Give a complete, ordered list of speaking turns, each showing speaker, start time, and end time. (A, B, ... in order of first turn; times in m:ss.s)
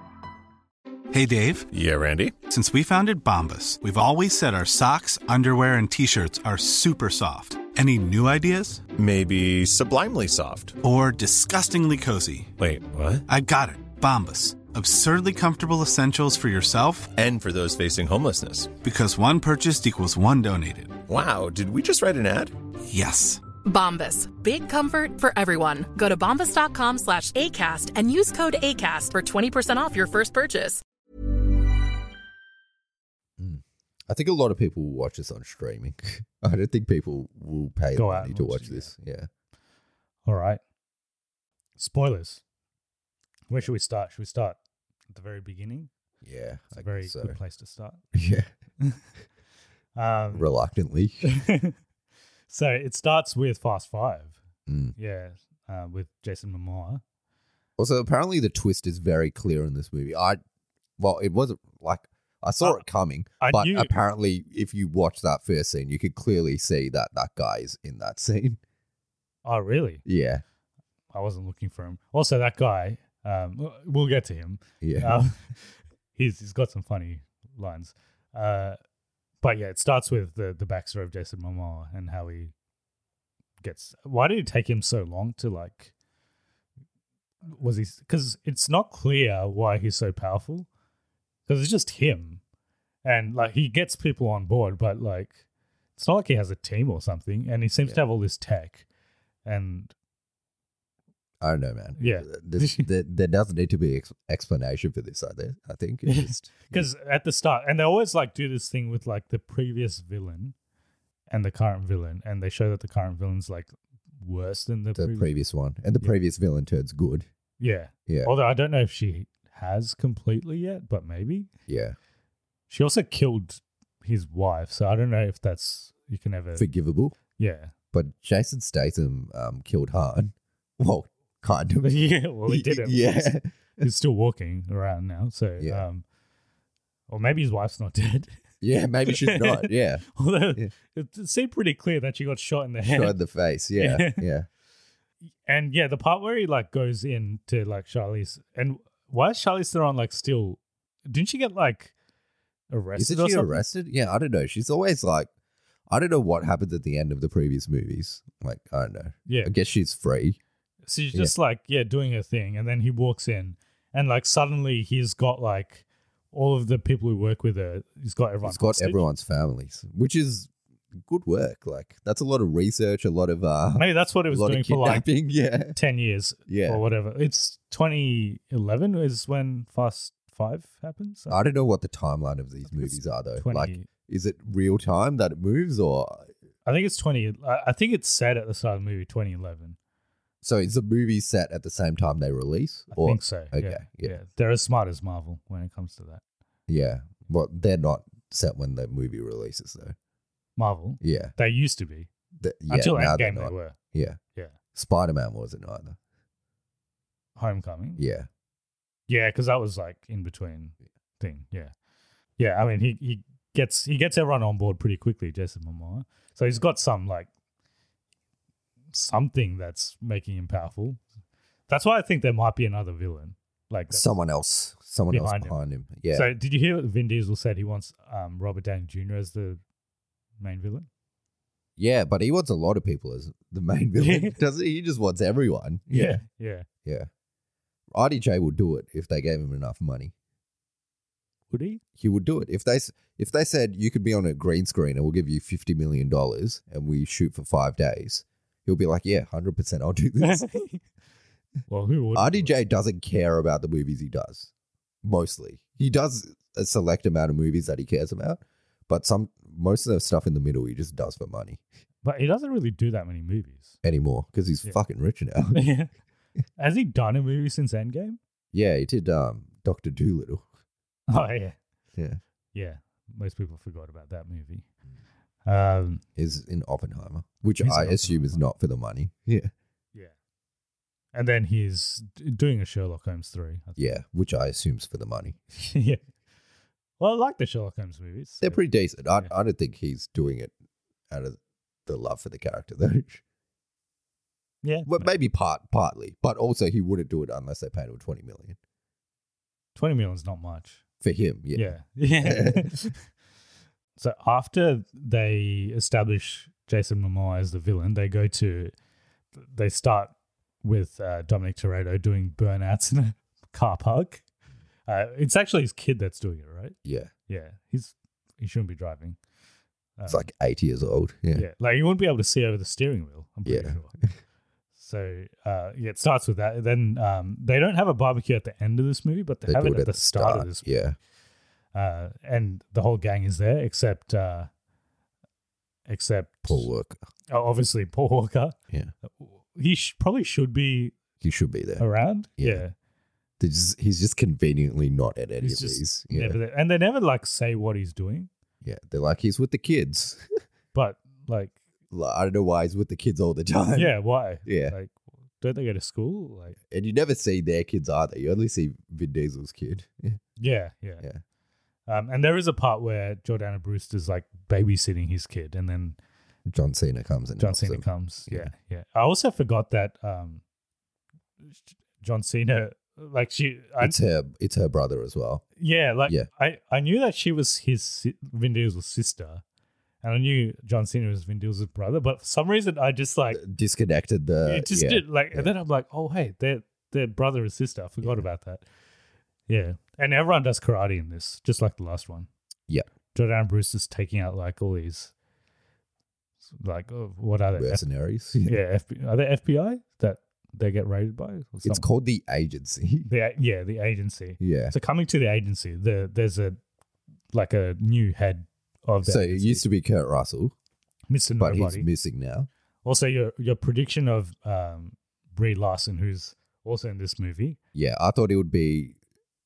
0:01.1-0:01.7 A
0:01.7-0:02.4 B
0:02.5-0:08.9 A
0:08.9-0:10.8 B
0:10.8-0:12.5 A
0:12.6-0:13.2 B
0:13.3-0:17.1 A
0:17.2-0:18.7 B
0:18.8-0:21.0 A
0:21.1-0:22.5 B
0:22.9-0:23.4 A
0:23.6-0:30.8 C
0:33.4-0:39.3 D
0:38.0-0:38.9 E
0:40.3-0:40.6 E
0:41.8-0:42.4 E
0:43.5-0:44.6 E
0:45.1-0:45.9 E
0:46.2-0:47.4 D
0:46.8-0:48.0 E
0:48.1-0:48.5 D
0:50.0-0:50.5 E
0:50.3-0:51.3 D
0:51.2-0:51.8 E
0:52.5-0:54.4 E
0:54.7-0:55.0 D
0:55.0-0:57.0 E
0:57.8-1:00.4 D
1:01.0-1:08.6 D
1:03.4-1:03.9 E
1:09.4-1:10.0 E
1:10.0-1:10.4 D
1:11.1-1:18.8 E
1:14.8-1:15.2 D
1:19.4-1:22.5 E
1:23.6-1:25.9 E
1:27.5-1:30.7 E
1:31.5-1:32.4 E
1:33.0-1:35.4 E
1:36.0-1:38.8 E
1:39.4-1:39.9 E
1:41.4-1:46.9 D
1:42.0-1:42.9 E
1:46.1-1:50.6 E
1:51.3-1:55.3 E
1:55.0-1:57.3 D
1:57.6-2:01.5 E
1:58.1-1:58.3 D
2:01.7-2:02.0 D
2:02.7-2:06.7 E
2:06.6-2:07.2 D
2:07.4-2:07.7 E
2:07.9-2:13.9 D
2:11.8-2:16.0 E
2:15.6-2:15.8 D
2:17.1-2:18.4 E
2:18.6-2:20.7 D
2:19.1-2:23.2 E
2:22.8-2:24.5 D
2:23.8-2:24.3 E
2:25.5-2:31.9 E
2:32.7-2:33.6 E
2:33.0-2:35.3 D
2:35.9-2:40.4 D
2:39.3-2:39.5 E
2:40.9-2:49.0 E
2:48.4-2:50.5 D
2:51.0-2:55.8 D
2:53.8-2:55.1 E
2:55.7-3:01.4 E
2:56.5-2:56.8 D
3:01.3-3:06.3 D
3:02.7-3:03.9 E
3:06.6-3:09.8 E
3:10.4-3:14.2 D
3:12.9-3:16.2 E
3:16.7-3:20.0 D
3:20.6-3:22.1 E
3:21.0-3:21.3 D
3:22.4-3:24.2 D
3:22.7-3:23.8 E
3:24.7-3:26.0 D
3:27.4-3:28.0 E
3:28.0-3:28.3 D
3:29.1-3:31.7 E
3:32.4-3:37.3 E
3:38.9-3:41.0 E
3:41.7-3:44.1 E
3:43.9-3:46.3 D
3:45.1-3:45.6 E
3:46.1-3:49.6 E
3:50.4-3:50.9 E
3:51.8-3:56.2 D
3:54.0-3:54.4 E
3:55.9-3:56.7 E
3:57.9-4:00.1 D
4:01.5-4:01.8 E
4:02.0-4:10.5 D
4:10.2-4:10.8 E
4:11.7-4:12.5 E
4:12.2-4:14.5 D
4:15.0-4:21.6 D
4:22.0-4:23.8 E
4:23.8-4:25.7 D
4:25.5-4:25.9 E
4:26.6-4:28.2 E
4:28.5-4:30.5 D
4:31.1-4:31.6 E
4:32.5-4:34.6 E
4:35.5-4:36.0 E
4:36.2-4:39.5 D
4:37.6-4:38.4 E
4:41.1-4:43.9 E
4:43.8-4:45.4 D
4:45.6-4:46.0 E
4:47.0-4:48.6 E
4:48.4-4:50.5 D
4:51.1-4:53.2 D
4:54.6-4:55.1 E
4:54.9-4:58.6 D
4:59.8-5:00.8 E
5:01.0-5:02.7 D
5:01.6-5:03.0 E
5:04.0-5:08.7 E
5:09.4-5:14.2 E
5:14.9-5:16.8 E
5:16.8-5:17.1 D
5:17.3-5:19.2 E
5:20.0-5:20.3 E
5:20.1-5:21.5 D
5:21.3-5:23.9 E
5:23.5-5:24.0 D
5:24.8-5:30.7 E
5:29.5-5:31.0 D
5:31.7-5:34.5 E
5:35.9-5:36.7 E
5:36.5-5:37.0 D
5:37.3-5:38.6 E
5:39.2-5:41.0 E
5:41.2-5:41.9 D
5:41.8-5:42.7 E
5:42.4-5:42.6 D
5:43.4-5:46.4 D
5:45.4-5:48.3 E
5:48.6-5:50.2 D
5:50.7-5:51.6 E
5:51.9-5:54.8 D
5:53.8-5:56.6 E
5:56.7-6:00.2 D
6:00.4-6:01.0 E
6:01.9-6:06.0 E
6:06.5-6:08.5 D
6:07.4-6:10.4 E
6:12.0-6:14.0 E
6:13.8-6:15.4 D
6:15.6-6:19.4 E
6:20.0-6:23.4 E
6:23.3-6:25.5 D
6:24.4-6:28.6 E
6:29.5-6:32.3 E
6:33.1-6:35.1 E
6:36.6-6:37.8 E
6:37.6-6:38.6 D
6:38.4-6:41.9 E
6:41.6-6:43.1 D
6:43.0-6:46.6 E
6:44.4-6:44.8 D
6:47.3-6:49.6 E
6:49.0-6:50.5 D
6:51.1-6:51.9 E
6:51.4-6:52.5 D
6:52.8-6:57.6 E
6:57.7-6:59.0 D